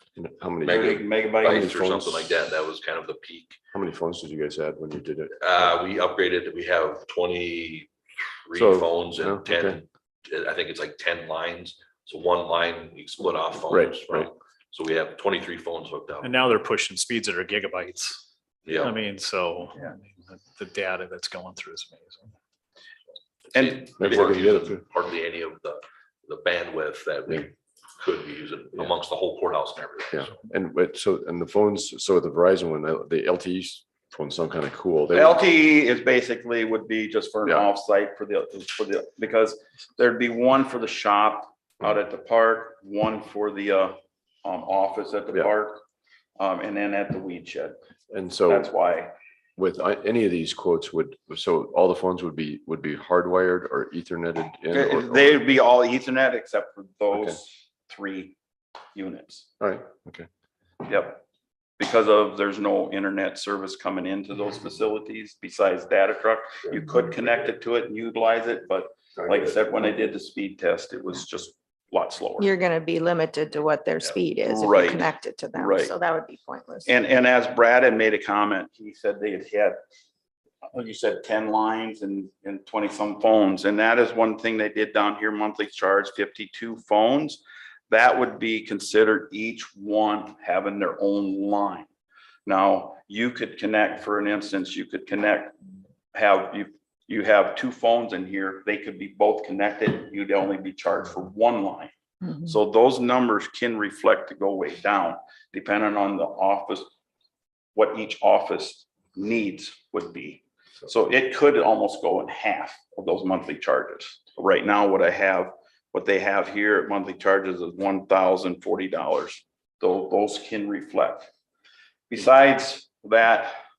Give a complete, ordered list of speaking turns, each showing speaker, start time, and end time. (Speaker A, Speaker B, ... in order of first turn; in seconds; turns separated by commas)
Speaker A: 0.1-2.5, Speaker B: 0.6-3.6, Speaker C: 0.7-1.7, Speaker A: 3.7-5.8, Speaker B: 5.4-7.9, Speaker B: 8.5-16.4, Speaker A: 8.5-9.8, Speaker A: 13.7-14.3, Speaker D: 16.2-18.2, Speaker B: 18.6-18.9, Speaker D: 18.8-22.3, Speaker C: 23.5-24.1, Speaker B: 23.5-30.4, Speaker A: 24.0-24.8, Speaker A: 30.1-35.4, Speaker C: 35.1-45.8, Speaker C: 46.4-47.8, Speaker A: 48.1-48.7, Speaker C: 48.5-49.1, Speaker A: 49.5-55.4, Speaker C: 54.7-58.4, Speaker A: 57.1-57.4, Speaker C: 58.9-59.5, Speaker A: 59.6-60.3, Speaker C: 60.9-61.2, Speaker C: 61.8-72.5, Speaker A: 69.1-69.6, Speaker E: 72.4-76.9, Speaker C: 74.4-75.9, Speaker C: 76.8-79.8, Speaker C: 80.7-91.9, Speaker C: 92.5-95.5, Speaker C: 96.1-106.9, Speaker C: 107.7-121.3, Speaker C: 122.1-123.5